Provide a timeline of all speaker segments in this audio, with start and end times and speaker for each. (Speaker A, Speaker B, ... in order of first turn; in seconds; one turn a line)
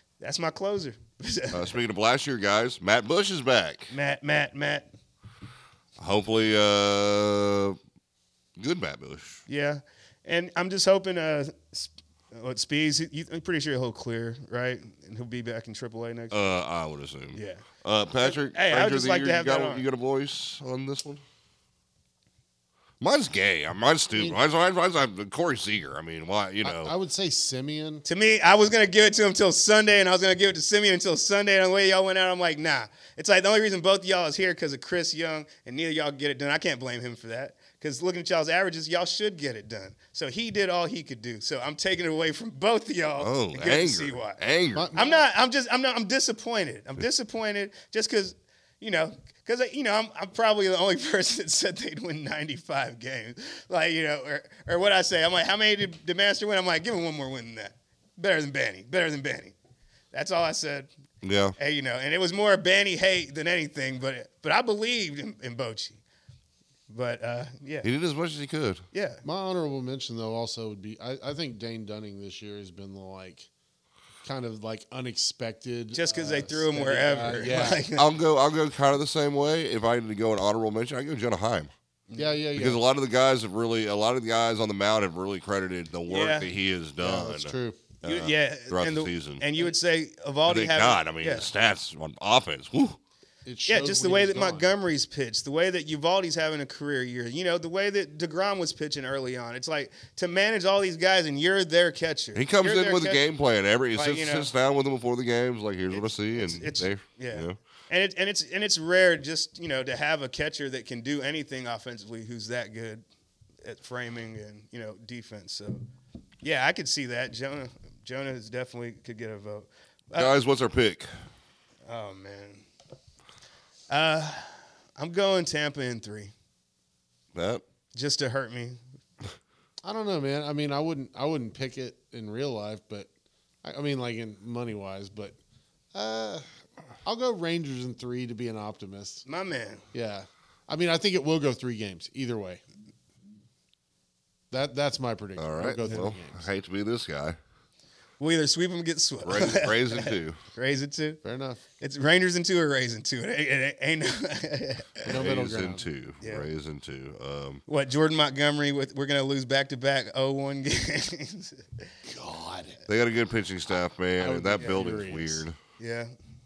Speaker A: 0.2-1.8
Speaker B: 1.5-3.9
Speaker A: 3.9-4.9
Speaker B: 6.0-7.8
Speaker B: 8.6-9.4
Speaker A: 9.5-16.4
Speaker B: 16.3-21.2
Speaker A: 17.3-17.6
Speaker A: 18.2-19.9
Speaker B: 23.0-26.9
Speaker C: 26.6-28.1
Speaker A: 28.1-44.4
Speaker B: 43.2-44.9
Speaker C: 44.8-45.2
Speaker A: 45.0-59.5
Speaker A: 60.1-60.9
Speaker B: 61.2-61.5
Speaker A: 61.6-66.0
Speaker A: 66.9-67.9
Speaker B: 67.8-68.8
Speaker A: 68.9-69.2
Speaker C: 69.2-73.5
Speaker C: 74.2-77.8
Speaker A: 76.0-78.1
Speaker B: 77.4-81.7
Speaker A: 82.1-82.3
Speaker C: 82.2-82.8
Speaker B: 82.6-89.5
Speaker A: 86.1-86.5
Speaker C: 87.0-87.9
Speaker A: 88.0-91.5
Speaker B: 90.5-93.0
Speaker C: 93.5-94.7
Speaker A: 93.7-103.2
Speaker B: 102.3-107.5
Speaker A: 104.0-104.5
Speaker A: 105.9-113.0
Speaker A: 113.6-115.8
Speaker A: 116.4-120.3
Speaker B: 120.2-121.1
Speaker A: 121.9-122.7
Speaker A: 123.9-126.3
Speaker B: 127.3-127.6
Speaker A: 128.0-128.8
Speaker C: 129.8-133.1
Speaker C: 133.6-135.4
Speaker C: 135.9-136.4
Speaker C: 137.1-139.2
Speaker A: 139.3-139.8
Speaker C: 139.9-142.6
Speaker C: 144.5-146.5
Speaker B: 145.4-147.4
Speaker A: 148.2-151.2
Speaker B: 149.2-150.4
Speaker C: 151.2-151.6
Speaker A: 151.8-155.1
Speaker C: 155.1-155.9
Speaker B: 155.1-157.6
Speaker A: 156.2-156.5
Speaker A: 157.7-161.9
Speaker C: 162.1-162.8
Speaker B: 162.9-165.6
Speaker C: 164.2-165.5
Speaker A: 165.8-166.1